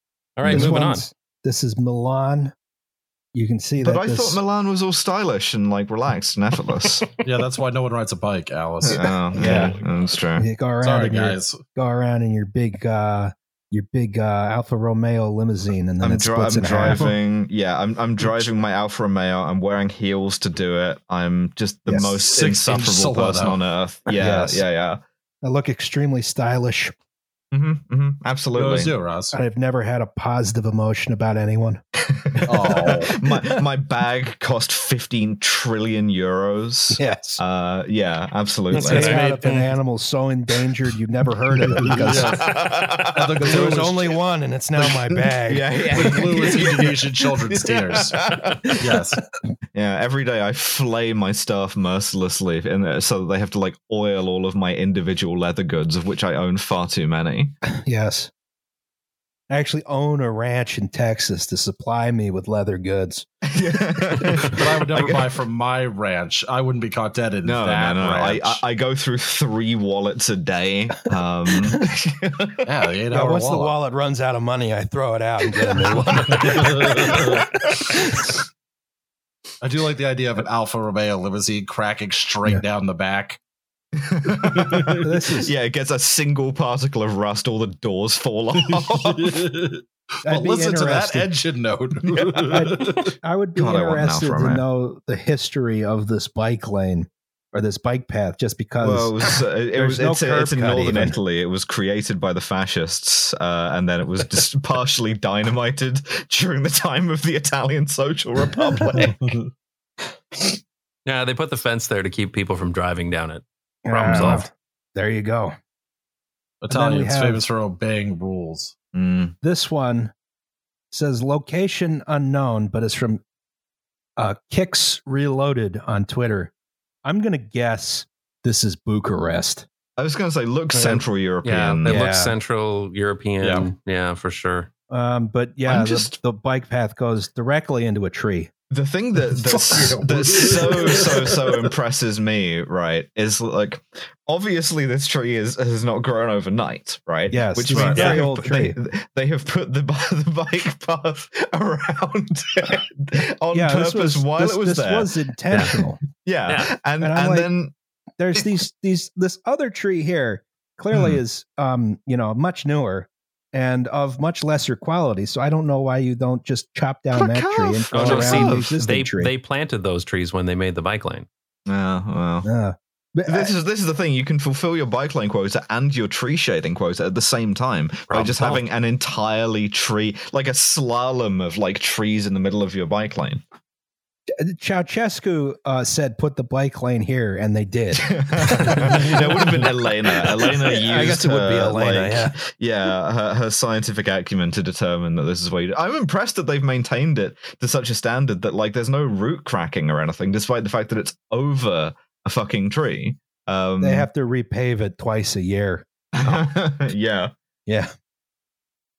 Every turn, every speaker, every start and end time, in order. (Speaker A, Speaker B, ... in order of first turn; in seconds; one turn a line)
Speaker A: 0.4-1.0
Speaker B: 0.5-2.5
Speaker B: 3.3-4.4
Speaker C: 3.8-7.0
Speaker D: 7.2-9.7
Speaker C: 8.8-10.5
Speaker B: 8.9-9.8
Speaker A: 9.4-10.1
Speaker B: 10.3-17.1
Speaker D: 10.8-11.6
Speaker C: 16.0-25.0
Speaker D: 16.8-17.1
Speaker B: 21.9-22.2
Speaker D: 22.3-23.6
Speaker B: 24.1-24.6
Speaker B: 25.4-26.9
Speaker C: 27.5-28.9
Speaker D: 28.5-29.4
Speaker B: 29.3-31.8
Speaker C: 32.2-39.2
Speaker D: 32.4-33.1
Speaker B: 37.0-37.4
Speaker A: 38.7-39.8
Speaker B: 38.8-42.5
Speaker D: 41.8-42.4
Speaker C: 42.2-43.6
Speaker D: 43.1-44.1
Speaker B: 43.4-46.5
Speaker C: 44.8-47.0
Speaker D: 45.9-48.1
Speaker C: 47.5-48.7
Speaker D: 48.8-49.2
Speaker C: 49.7-57.5
Speaker B: 57.8-58.3
Speaker B: 59.5-63.3
Speaker C: 63.5-65.2
Speaker D: 64.5-68.6
Speaker C: 67.4-72.6
Speaker D: 72.6-73.7
Speaker B: 73.1-78.3
Speaker D: 76.4-77.4
Speaker D: 79.6-83.4
Speaker C: 84.0-89.4
Speaker D: 84.6-85.0
Speaker B: 85.0-85.5
Speaker D: 88.9-93.0
Speaker B: 90.2-91.4
Speaker C: 92.0-92.6
Speaker B: 92.5-101.2
Speaker C: 93.6-94.6
Speaker C: 98.8-109.3
Speaker D: 109.0-109.4
Speaker A: 111.0-114.4
Speaker B: 113.8-115.5
Speaker C: 114.1-114.3
Speaker D: 116.6-118.7
Speaker B: 116.7-117.4
Speaker C: 118.9-119.3
Speaker B: 119.4-120.1
Speaker B: 120.9-123.2
Speaker B: 124.2-126.5
Speaker B: 127.0-129.7
Speaker C: 130.0-132.1
Speaker A: 130.7-134.7
Speaker B: 131.8-132.3
Speaker D: 133.4-133.7
Speaker B: 134.9-138.5
Speaker C: 135.7-136.1
Speaker C: 138.7-157.7
Speaker D: 139.2-141.4
Speaker B: 147.3-148.8
Speaker A: 147.7-148.2
Speaker B: 153.5-156.0
Speaker A: 156.4-156.7
Speaker B: 157.0-157.5
Speaker B: 158.2-169.3
Speaker C: 160.9-161.2
Speaker C: 167.1-168.7
Speaker A: 167.9-171.3
Speaker C: 171.7-172.5
Speaker B: 172.4-173.6
Speaker C: 173.3-183.4
Speaker A: 178.1-178.6
Speaker B: 184.4-192.4
Speaker C: 188.1-204.1
Speaker B: 203.8-206.4
Speaker C: 206.2-207.3